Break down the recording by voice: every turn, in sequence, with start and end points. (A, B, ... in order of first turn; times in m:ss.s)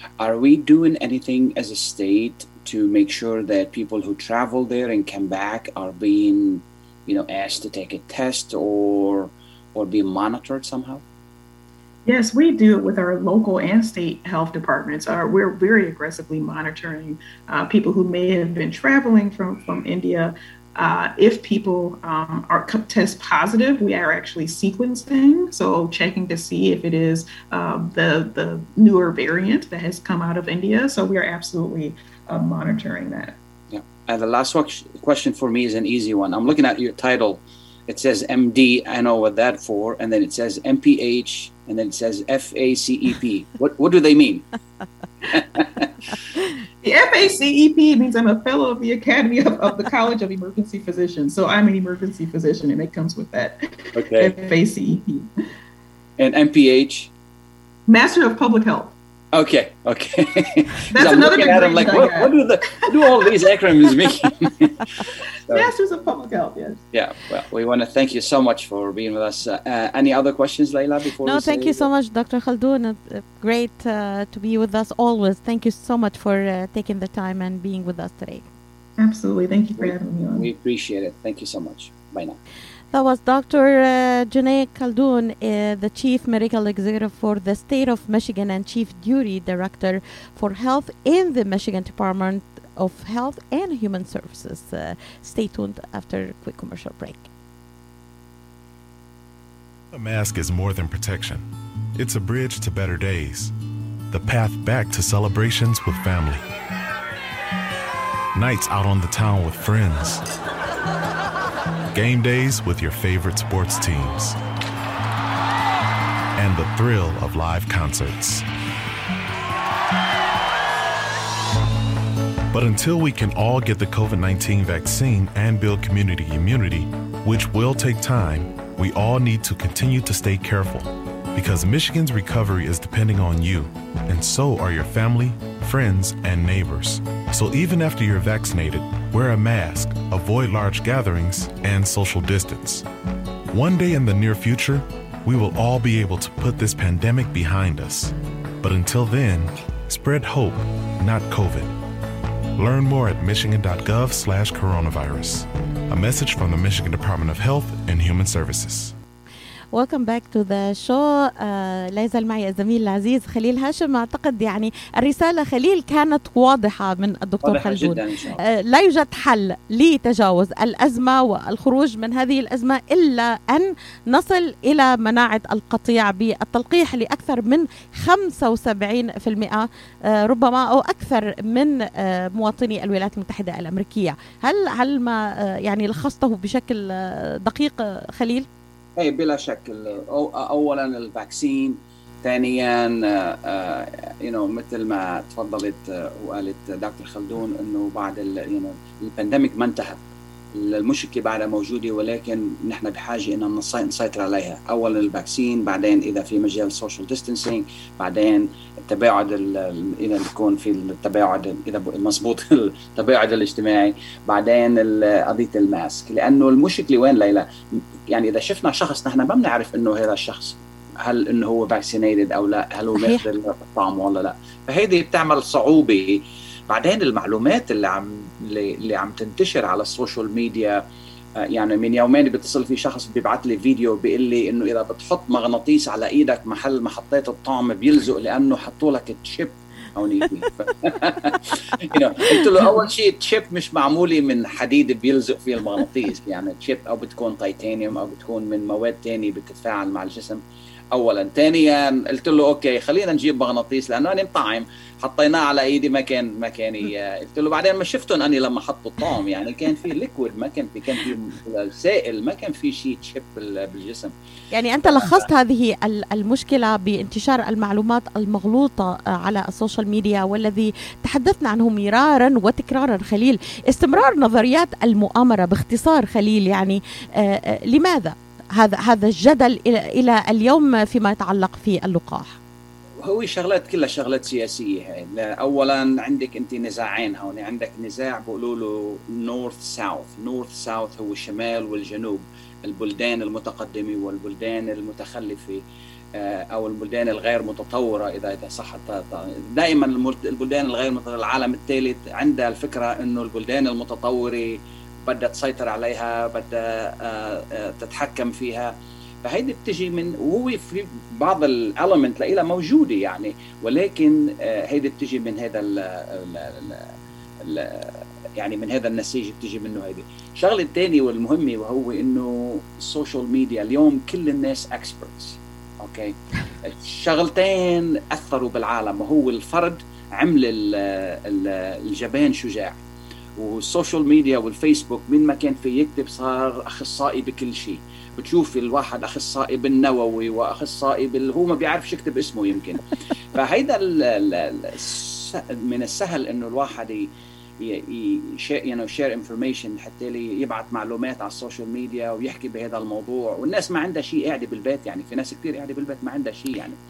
0:00.2-0:11.0 A
0:12.1-0:33.4 B
0:33.7-0:44.5 A
0:45.3-0:45.9 A
0:46.8-0:55.3 B
0:54.0-0:54.3 A
0:56.2-0:57.1 A
0:57.9-0:59.0 B
0:59.3-1:05.7 A
1:00.9-1:02.4 B
1:03.0-1:03.3 B
1:05.5-1:06.8 B
1:06.9-1:11.9 A
1:11.2-1:18.5 C
1:19.0-1:20.5 B
1:19.8-1:22.4 A
1:22.9-1:37.3 C
1:39.9-1:43.5 D
1:44.1-1:46.4 D
1:48.4-1:50.2 D
1:51.9-1:54.4 D
1:56.4-1:58.5 D
2:02.5-2:22.9 D
2:23.5-2:31.8 D
2:32.6-2:39.0 D
2:39.7-3:08.5 C
2:47.4-2:48.4 A
3:09.0-3:20.0 A
3:20.5-3:50.8 A
3:43.0-3:43.2 C
3:51.4-4:10.4 A
4:10.9-4:24.1 A
4:24.5-4:42.4 C
4:24.8-4:25.2 A
4:43.0-4:55.6 A
4:56.2-5:32.8 A
5:33.4-5:56.8 A